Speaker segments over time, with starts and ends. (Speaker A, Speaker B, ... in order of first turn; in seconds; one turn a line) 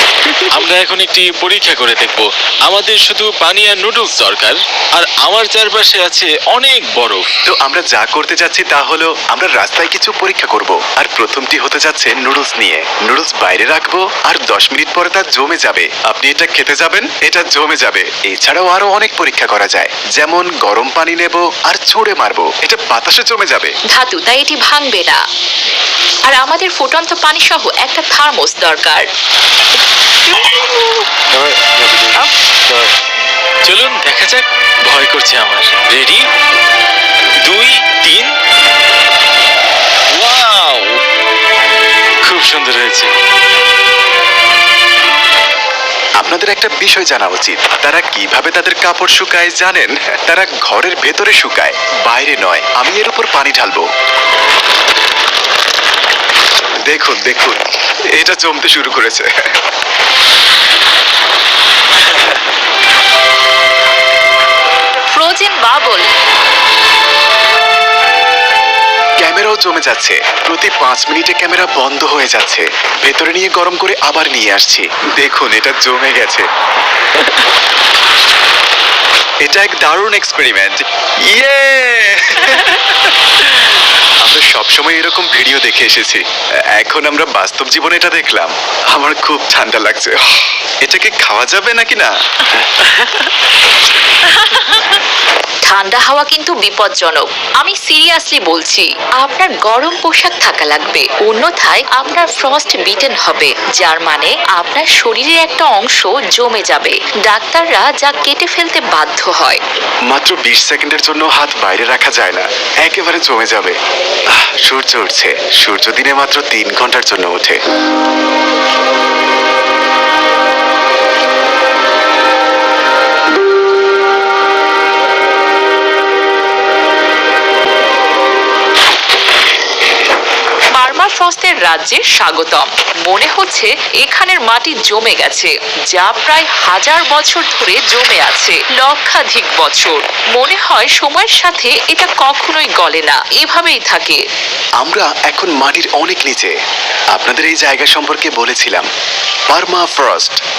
Speaker A: 0.5-7.3
Speaker B: 7.5-23.7
Speaker C: 23.9-25.2
Speaker C: 26.3-29.1
Speaker A: 33.6-36.2
Speaker A: 37.4-38.3
Speaker A: 40.1-41.0
Speaker A: 42.2-43.1
Speaker B: 46.2-53.9
Speaker B: 56.9-57.6
Speaker B: 58.1-59.5
Speaker C: 65.1-66.1
Speaker B: 69.2-76.5
Speaker B: 79.4-93.2
Speaker C: 95.7-109.6
Speaker B: 110.1-113.8
Speaker B: 114.3-117.6
Speaker C: 130.8-144.2
Speaker B: 144.8-146.5
Speaker B: 147.1-148.9
Speaker B: 149.5-150.4